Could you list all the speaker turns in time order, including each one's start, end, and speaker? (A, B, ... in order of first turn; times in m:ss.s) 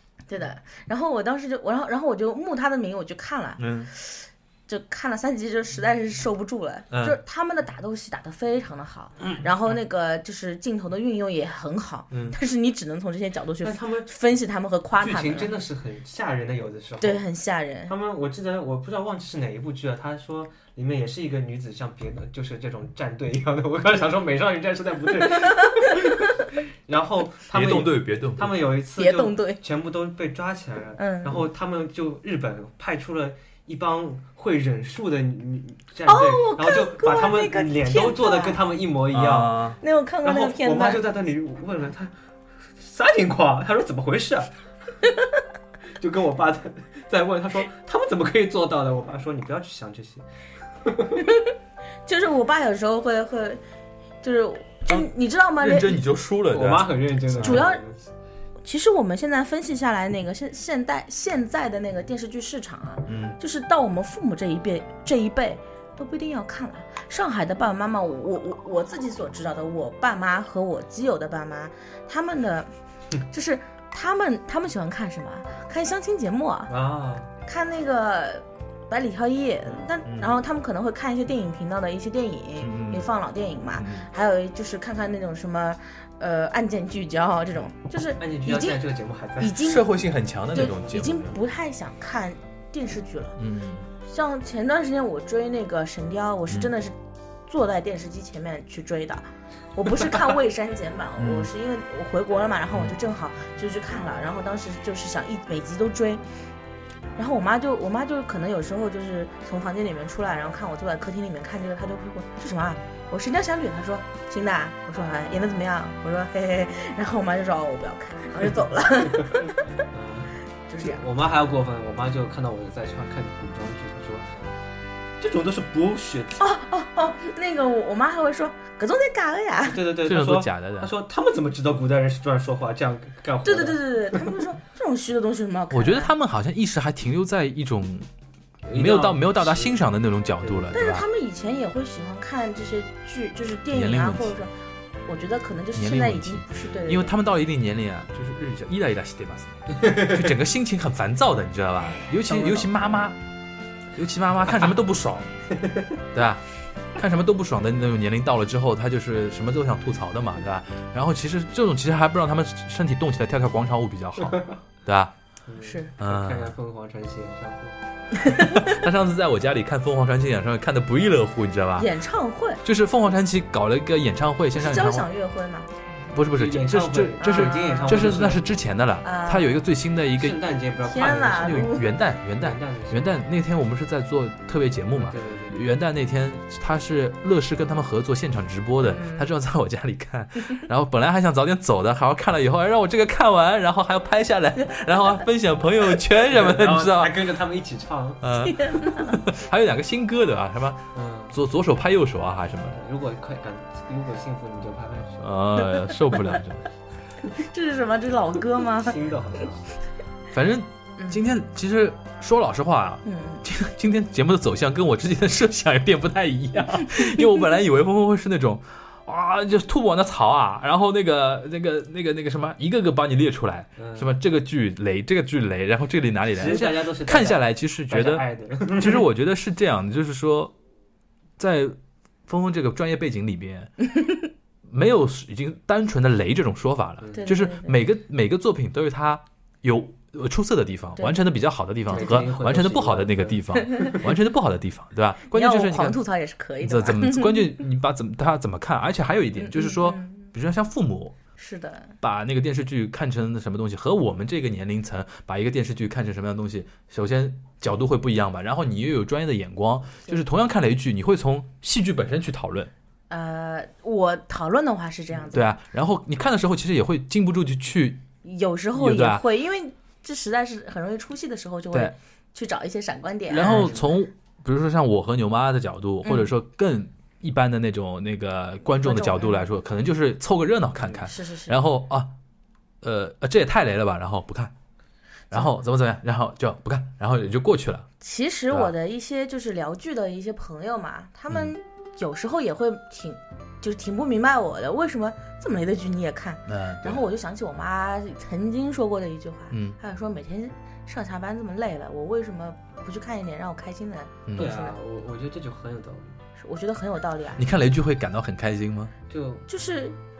0:00.3-0:15.5 A
0:03.6-0:03.9 B
0:06.9-0:07.2 B
0:12.1-0:12.4 B
0:13.6-0:14.1 C
0:15.0-0:17.2 C
0:17.0-0:17.9 A
0:17.9-0:39.6 C
0:25.4-0:26.3 A
0:27.5-0:28.6 B
0:29.0-0:29.6 A
0:31.0-0:31.4 A
0:36.1-0:38.6 A
0:39.1-0:39.8 B
0:39.8-0:41.0 A
0:40.2-0:42.1 C
0:42.8-0:44.5 C
0:46.0-0:50.2 C
0:50.8-0:51.2 C
0:51.2-0:51.5 A
0:52.0-0:53.6 A
0:54.2-0:56.0 A
0:54.9-0:57.6 B
0:56.5-0:58.0 C
0:57.4-0:57.8 A
0:58.6-1:12.7 A
1:03.0-1:03.4 B
1:13.3-1:16.7 A
1:16.7-1:17.3 C
1:17.4-1:28.8 A
1:20.0-1:20.4 B
1:22.6-1:23.1 B
1:23.7-1:24.1 B
1:28.2-1:29.6 C
1:29.4-1:29.8 A
1:29.6-1:31.4 B
1:30.5-1:33.4 A
1:33.4-1:33.9 B
1:34.0-1:36.9 A
1:37.5-1:46.2 A
1:41.2-1:41.5 B
1:47.2-1:59.6 A
1:59.9-2:04.5 C
2:00.7-2:01.0 A
2:05.2-2:06.4 C
2:06.4-2:09.8 A
2:09.6-2:14.4 C
2:10.0-2:10.9 B
2:13.4-2:16.1 A
2:15.7-2:18.1 B
2:18.7-2:19.8 C
2:18.7-2:21.0 B
2:20.4-2:20.7 C
2:20.7-2:24.5 A
2:23.7-2:24.3 B
2:25.0-2:27.1 A
2:25.7-2:33.2 B
2:31.8-2:32.6 A
2:33.9-2:35.3 B
2:35.6-2:35.9 C
2:36.1-2:36.4 B
2:36.9-2:45.1 B
2:45.5-2:47.8 C
2:45.6-2:45.9 A
2:46.0-2:46.5 B
2:48.1-2:48.7 A
2:48.3-2:51.9 B
2:51.8-2:52.6 A
2:52.6-2:55.1 B
2:54.5-2:55.7 A
2:56.1-3:00.4 B
2:56.2-2:58.5 C
2:57.2-2:58.2 A
2:59.0-2:59.6 A
3:00.2-3:01.7 C
3:00.8-3:01.8 A
3:01.3-3:17.2 B
3:02.4-3:03.2 C
3:05.0-3:05.6 C
3:08.8-3:09.3 A
3:16.2-3:18.2 C
3:18.2-3:22.8 B
3:18.4-3:19.2 A
3:20.9-3:21.4 C
3:22.7-3:25.3 C
3:25.2-3:26.6 B
3:27.3-3:29.0 A
3:28.8-3:29.7 C
3:30.3-3:48.2 B
3:33.0-3:33.4 A
3:43.8-3:44.2 C
3:46.3-3:49.0 C
3:48.8-3:50.5 B
3:51.4-3:53.7 B
3:54.0-3:54.2 A
3:54.7-4:06.0 B
3:57.0-3:57.3 C
3:57.1-3:57.8 A
4:01.0-4:01.2 A
4:01.9-4:02.2 A
4:01.9-4:04.0 C
4:03.6-4:03.9 A
4:05.3-4:07.5 A
4:06.6-4:11.2 B
4:09.4-4:10.3 A
4:11.4-4:11.9 A
4:12.0-4:22.7 B
4:23.1-4:25.5 A
4:25.3-4:28.0 B
4:28.2-4:33.7 A
4:28.7-4:29.2 B
4:33.3-4:42.1 B
4:33.4-4:33.8 C
4:36.0-4:36.3 A
4:38.8-4:39.5 A
4:40.8-4:41.0 C
4:41.0-4:41.6 A
4:42.8-4:44.5 B
4:45.3-4:47.9 B
4:48.0-5:04.7 A
4:56.5-4:57.0 B
4:59.5-4:59.8 B
5:04.3-5:04.5 B
5:04.4-5:06.2 C
5:06.4-5:07.4 A
5:07.4-5:08.9 B
5:09.1-5:09.4 C
5:09.5-5:10.0 A